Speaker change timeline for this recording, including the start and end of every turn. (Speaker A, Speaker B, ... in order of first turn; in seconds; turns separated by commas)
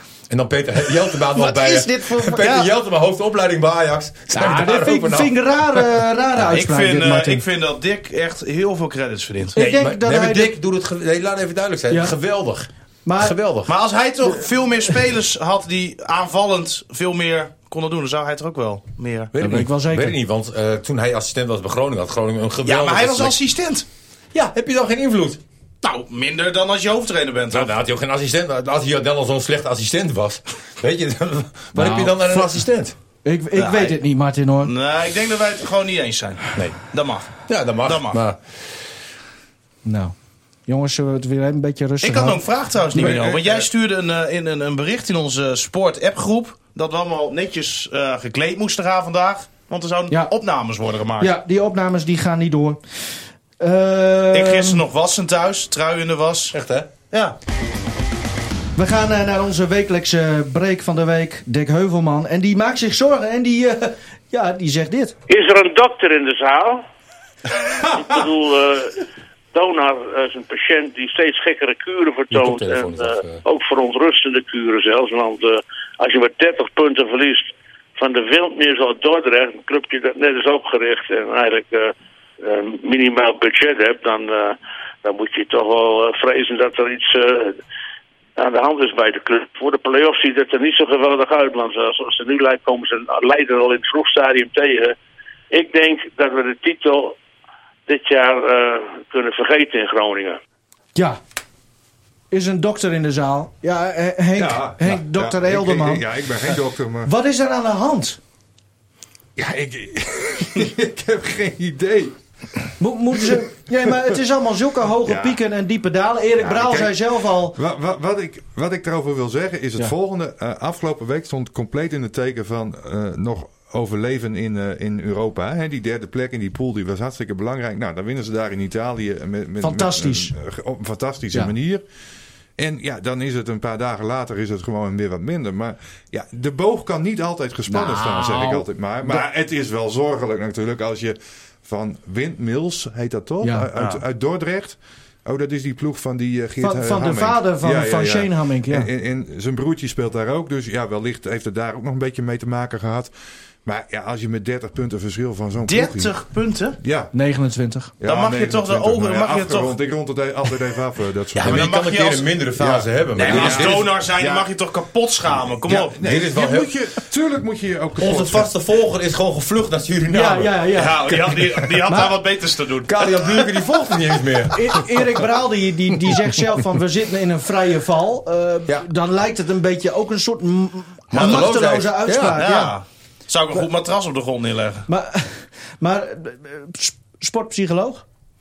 Speaker A: 0.3-5.8, Speaker B: 1.4-2.7, Speaker C: 4.3-7.5, Speaker B: 6.4-9.6, Speaker C: 9.6-10.5, Speaker A: 9.6-13.7, Speaker C: 11.9-12.1, Speaker C: 13.1-13.4, Speaker B: 13.7-19.3, Speaker A: 19.3-23.4, Speaker C: 19.4-20.2, Speaker B: 22.6-23.9, Speaker A: 24.3-25.4, Speaker B: 25.8-27.7, Speaker A: 27.5-33.0, Speaker C: 31.8-32.5, Speaker C: 33.2-34.7, Speaker B: 33.6-34.0, Speaker B: 34.6-38.2, Speaker A: 37.5-38.4, Speaker C: 39.9-40.1, Speaker C: 40.7-42.4, Speaker B: 42.0-51.4, Speaker D: 42.9-43.7, Speaker C: 51.2-52.8, Speaker C: 53.6-54.8, Speaker B: 54.3-56.6, Speaker A: 56.5-56.9, Speaker B: 57.1-57.4, Speaker C: 58.8-65.2, Speaker E: 65.3-66.8, Speaker E: 67.9-87.6, Speaker A: 72.3-73.4, Speaker E: 88.4-95.0, Speaker E: 95.5-97.2, Speaker E: 97.9-100.4, Speaker C: 102.3-106.0, Speaker D: 104.4-107.1, Speaker C: 107.0-108.2, Speaker D: 109.4-112.2, Speaker C: 112.8-117.6, Speaker D: 115.0-115.4, Speaker D: 116.4-131.8, Speaker C: 129.6-130.3, Speaker D: 132.6-153.1, Speaker C: 137.7-139.2, Speaker C: 143.4-143.7, Speaker B: 143.8-144.0, Speaker C: 146.6-148.9, Speaker D: 153.7-156.1, Speaker B: 155.7-156.8, Speaker D: 156.8-157.1, Speaker C: 157.1-157.9, Speaker D: 158.0-161.8, Speaker B: 158.0-159.8, Speaker B: 161.3-162.3, Speaker A: 161.4-163.9, Speaker D: 162.6-164.5, Speaker B: 163.2-165.9, Speaker D: 165.7-168.5, Speaker A: 165.9-166.7, Speaker A: 168.0-170.7, Speaker C: 170.1-171.2, Speaker B: 170.7-173.7, Speaker C: 171.9-172.2, Speaker A: 172.8-175.2, Speaker C: 174.5-182.8, Speaker A: 181.1-182.4, Speaker B: 181.2-181.4, Speaker B: 182.2-184.9, Speaker C: 184.9-188.0